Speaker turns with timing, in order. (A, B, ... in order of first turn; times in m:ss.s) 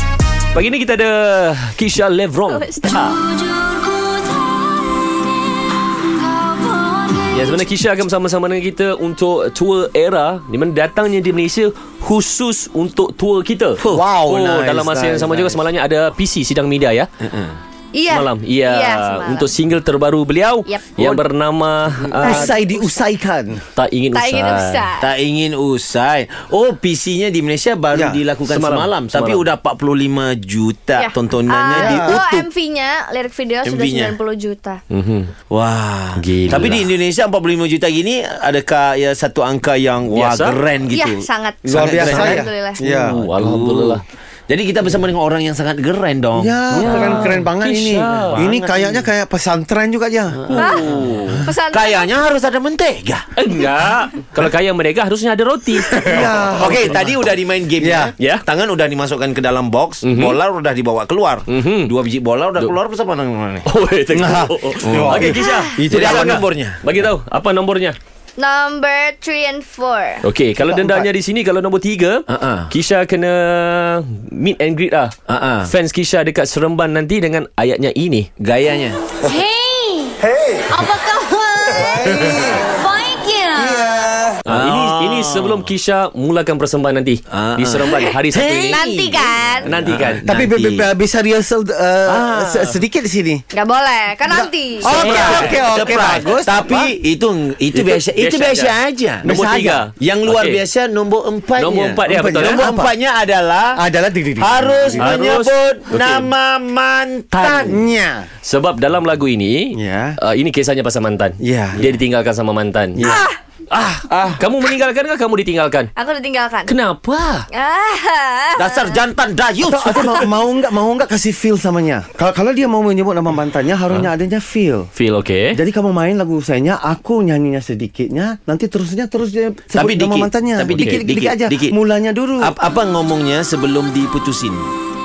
0:00.5-0:03.2 A
0:02.5-0:03.0 B
0:03.4-0:03.6 C
0:07.3-0:17.1 A
0:13.8-0:15.6 D
0:17.2-0:17.6 E
0:17.9-0:19.5 B
0:18.1-0:22.6 A
0:20.6-0:21.2 B
0:22.2-0:23.6 D
0:22.2-0:22.9 B
0:23.7-0:24.9 A
0:24.1-0:25.1 B
0:25.0-0:32.5 E
0:27.9-0:28.2 D
0:28.4-0:29.5 A
0:31.0-0:34.8 B
0:31.7-0:32.2 D
0:33.6-0:34.2 E
0:34.9-0:35.3 A
0:35.5-0:47.4 E
0:36.2-0:36.9 A
0:40.1-0:40.6 A
0:40.9-0:42.8 B
0:41.6-0:43.2 D
0:42.8-0:44.0 A
0:46.4-0:50.5 D
0:46.7-0:48.4 A
0:48.1-0:49.1 E
0:50.4-0:51.1 E
0:50.5-0:51.4 A
0:50.5-0:50.8 B
0:51.4-0:52.1 B
0:51.7-0:53.2 E
0:53.4-0:56.9 A
0:55.9-0:57.0 D
0:56.2-1:03.7 E
0:57.8-0:58.1 D
0:58.2-0:58.4 A
1:00.0-1:00.4 A
1:01.5-1:01.9 A
1:03.6-1:08.0 A
1:04.1-1:06.4 D
1:04.8-1:06.8 E
1:08.4-1:10.2 B
1:10.2-1:15.1 A
1:10.6-1:11.1 D
1:12.3-1:12.7 E
1:15.3-1:15.7 E
1:15.6-1:18.3 A
1:18.4-1:19.0 E
1:19.2-1:20.2 C
1:20.2-1:20.5 D
1:20.7-1:23.9 C
1:21.9-1:22.6 D
1:23.6-1:24.4 D
1:24.4-1:25.7 E
1:24.4-1:28.8 A
1:27.3-1:30.9 E
1:28.7-1:29.7 B
1:29.6-1:30.3 A
1:30.2-1:33.4 D
1:32.1-1:32.5 E
1:32.2-1:32.8 A
1:33.5-1:35.0 B
1:34.2-1:36.9 D
1:34.9-1:39.3 E
1:34.9-1:35.6 A
1:37.7-1:40.6 A
1:39.2-1:39.8 D
1:40.0-1:43.8 E
1:41.6-1:42.8 A
1:42.0-1:42.9 D
1:43.7-1:45.2 D
1:44.4-1:47.8 E
1:45.0-1:46.3 A
1:47.4-1:48.3 D
1:48.4-1:53.0 A
1:49.7-1:50.2 D
1:51.4-1:51.9 D
1:52.9-1:53.3 D
1:53.0-1:53.3 B
1:53.7-1:55.9 A
1:54.1-1:54.4 D
1:56.0-1:56.7 B
1:56.7-1:57.4 A
1:57.5-1:59.0 B
1:58.6-2:00.3 E
1:59.6-2:04.9 D
2:04.9-2:05.6 A
2:05.5-2:12.5 D
2:09.7-2:11.8 E
2:10.7-2:11.0 A
2:12.4-2:14.7 E